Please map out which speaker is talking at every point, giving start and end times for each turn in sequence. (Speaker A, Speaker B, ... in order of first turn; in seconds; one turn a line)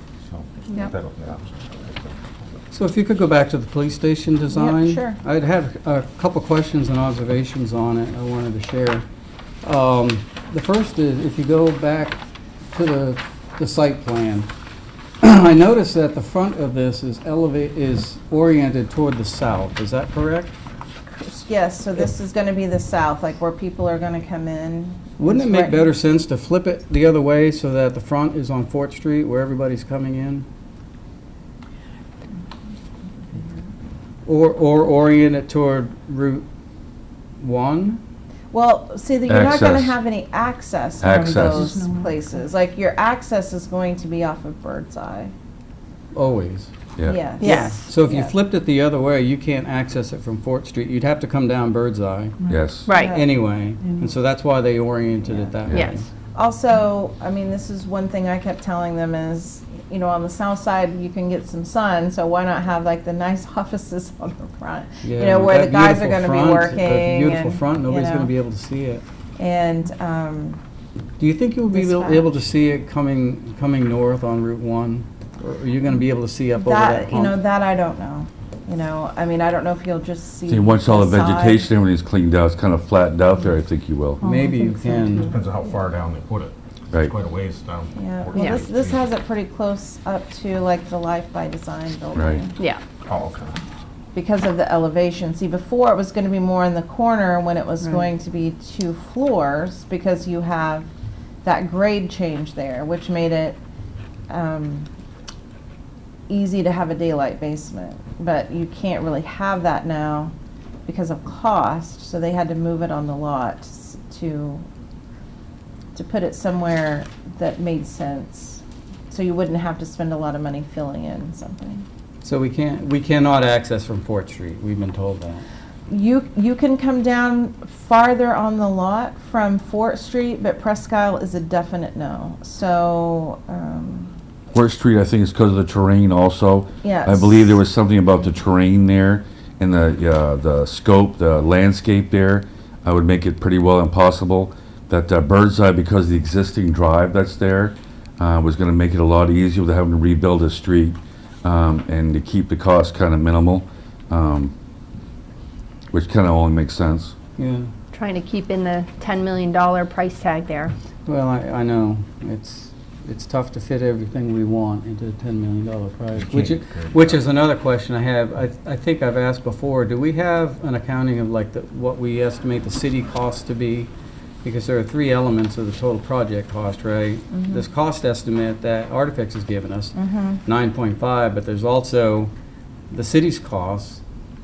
Speaker A: 0.2-2.1
Speaker B: 2.7-9.0
Speaker C: 4.5-5.2
Speaker B: 9.6-12.2
Speaker B: 12.7-14.5
Speaker B: 15.2-20.6
Speaker C: 21.1-25.9
Speaker B: 25.2-30.4
Speaker B: 34.2-36.5
Speaker B: 37.4-38.0
Speaker C: 38.5-45.3
Speaker D: 39.3-40.0
Speaker D: 41.0-41.8
Speaker B: 46.1-46.7
Speaker D: 47.0-47.2
Speaker C: 47.0-48.3
Speaker E: 47.4-47.9
Speaker B: 47.4-56.1
Speaker D: 52.5-52.9
Speaker E: 52.8-53.2
Speaker C: 52.9-53.3
Speaker E: 55.7-56.0
Speaker C: 56.3-68.3
Speaker B: 65.0-69.0
Speaker C: 69.3-70.6
Speaker B: 71.2-77.4
Speaker C: 71.7-72.4
Speaker C: 76.6-81.6
Speaker D: 80.5-84.2
Speaker B: 84.2-85.3
Speaker A: 85.3-89.1
Speaker C: 87.9-92.5
Speaker E: 88.3-88.6
Speaker D: 92.1-92.4
Speaker A: 93.0-93.6
Speaker C: 94.1-100.9
Speaker C: 101.4-103.6
Speaker C: 104.3-104.9
Speaker C: 106.3-110.3
Speaker C: 110.8-114.6
Speaker C: 115.9-121.8
Speaker B: 122.2-125.5
Speaker C: 125.9-134.1
Speaker D: 134.5-154.5
Speaker C: 136.8-137.6
Speaker D: 155.9-157.1
Speaker B: 157.4-157.7
Speaker E: 157.9-160.7
Speaker B: 161.1-173.9
Speaker A: 166.2-167.2
Speaker B: 174.4-182.3
Speaker C: 177.3-177.6
Speaker C: 179.9-180.4
Speaker B: 182.9-184.0